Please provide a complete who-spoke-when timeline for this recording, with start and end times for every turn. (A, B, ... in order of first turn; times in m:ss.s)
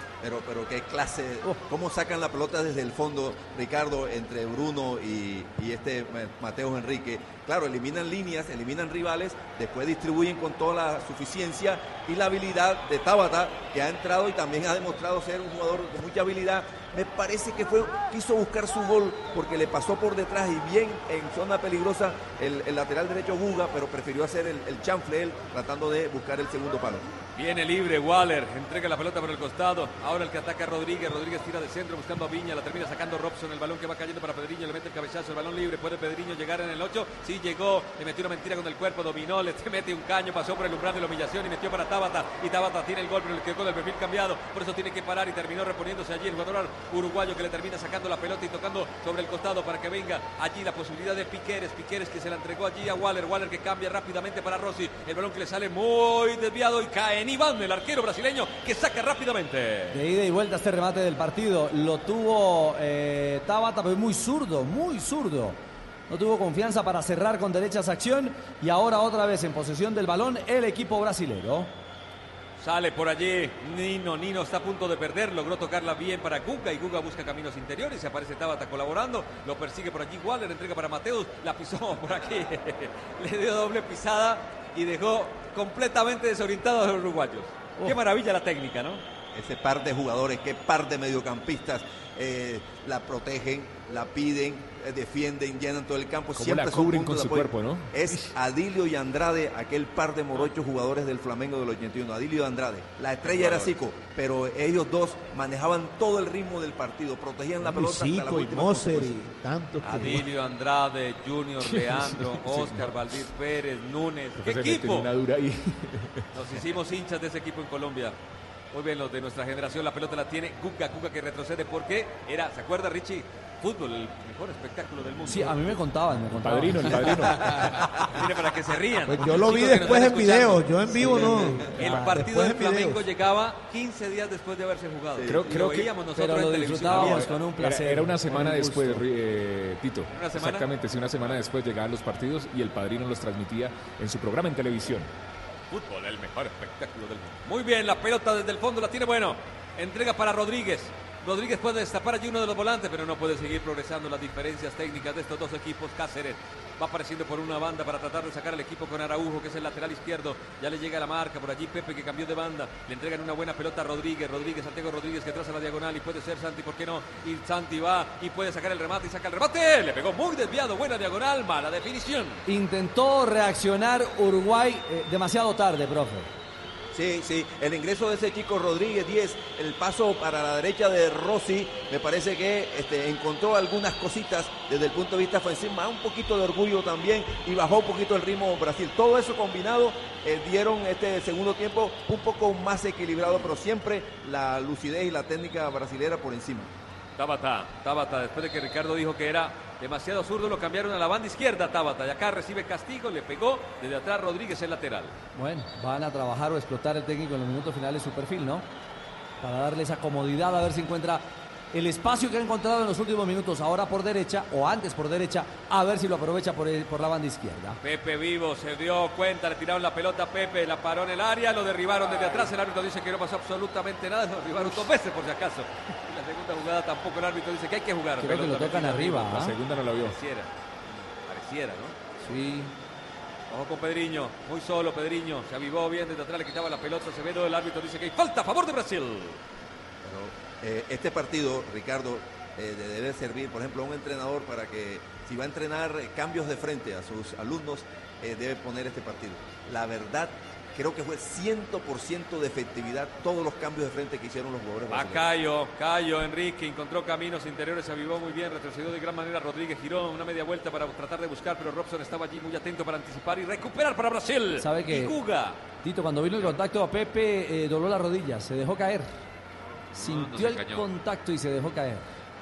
0:00.2-0:27.1 A
0:27.4-1:00.0 B
0:59.9-1:11.7 C
1:12.6-1:29.0 B
1:29.3-1:49.2 A
1:36.4-1:38.3 D
1:43.2-1:43.7 B
1:47.6-1:50.2 E
1:49.8-1:55.1 B
1:51.6-1:52.9 D
1:54.4-1:56.2 D
1:56.3-1:58.2 B
1:58.7-2:05.8 B
2:05.2-2:07.4 C
2:06.4-2:07.7 D
2:07.1-2:17.4 B
2:09.1-2:13.0 E
2:10.9-2:12.2 C
2:15.2-2:15.5 A
2:15.3-2:15.9 D
2:16.2-2:19.0 C
2:16.9-2:25.1 D
2:20.1-2:20.7 B
2:25.7-2:52.4 B
2:52.5-2:56.3 C
2:56.9-3:16.7 A
3:17.2-3:25.1 B
3:25.4-3:28.7 C
3:29.4-3:37.8 C
3:37.8-3:52.0 B
3:48.2-3:49.5 C
3:49.4-3:50.2 D
3:53.5-3:59.4 B
4:00.0-4:15.3 A
4:14.9-4:25.6 B
4:24.6-4:25.2 C
4:25.8-4:29.1 C
4:30.0-4:30.8 B
4:30.0-4:32.0 C